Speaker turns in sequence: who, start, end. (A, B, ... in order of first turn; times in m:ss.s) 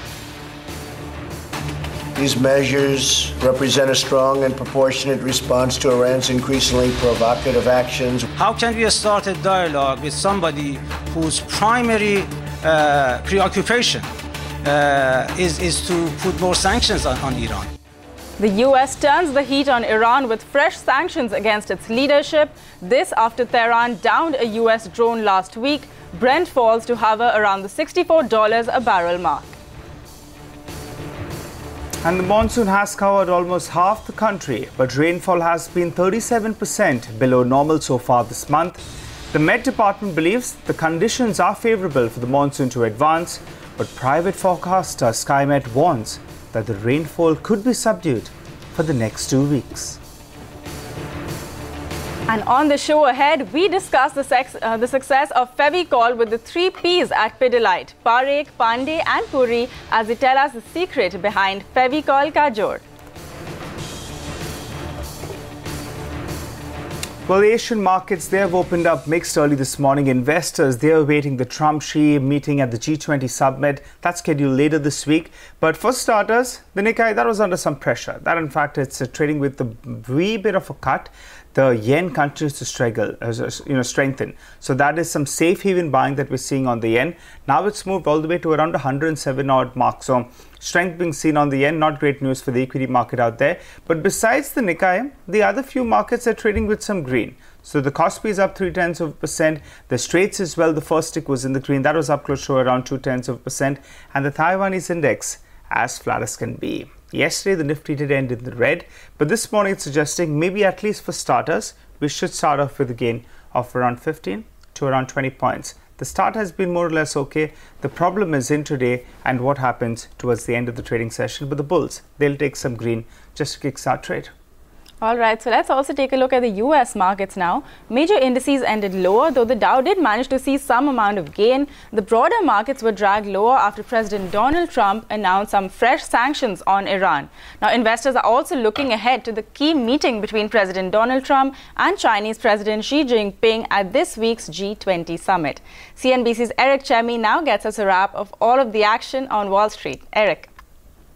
0:02.2-0:08.3 A
0:08.4-0:14.1 B
0:14.6-0:17.7 B
0:18.4-0:29.6 C
0:32.0-0:50.0 D
0:52.3-1:02.8 C
1:07.3-2:04.3 D
2:05.0-2:30.5 C